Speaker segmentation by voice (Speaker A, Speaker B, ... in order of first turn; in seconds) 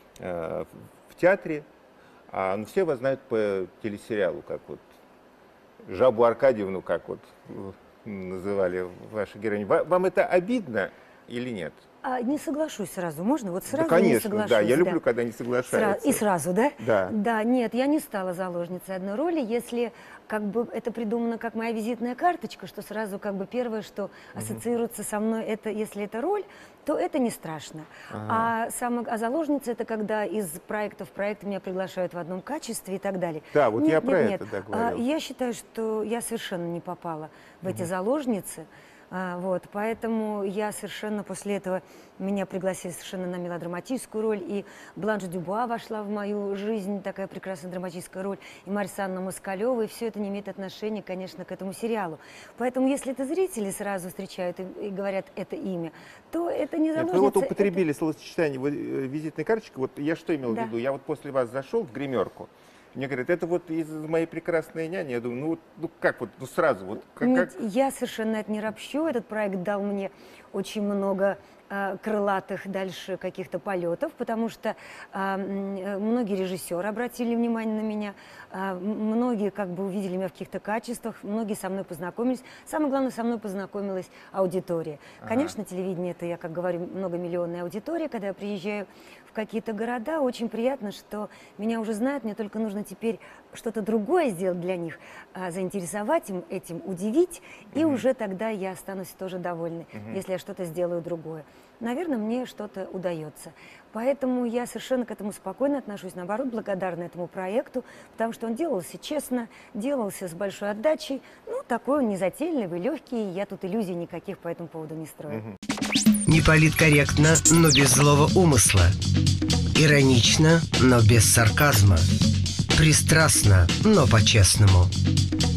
Speaker A: 0.2-1.7, 2.3-4.8, 5.9-11.8, 13.7-16.2, 16.8-17.1, 24.4-24.6, 28.1-28.5, 33.5-35.0, 57.0-67.6, 85.2-85.5, 97.7-98.0, 99.9-100.2, 115.3-115.5
Speaker B: 12.0-15.0, 15.7-57.8, 67.2-115.4
Speaker C: 116.3-119.0, 119.8-122.1, 122.7-124.9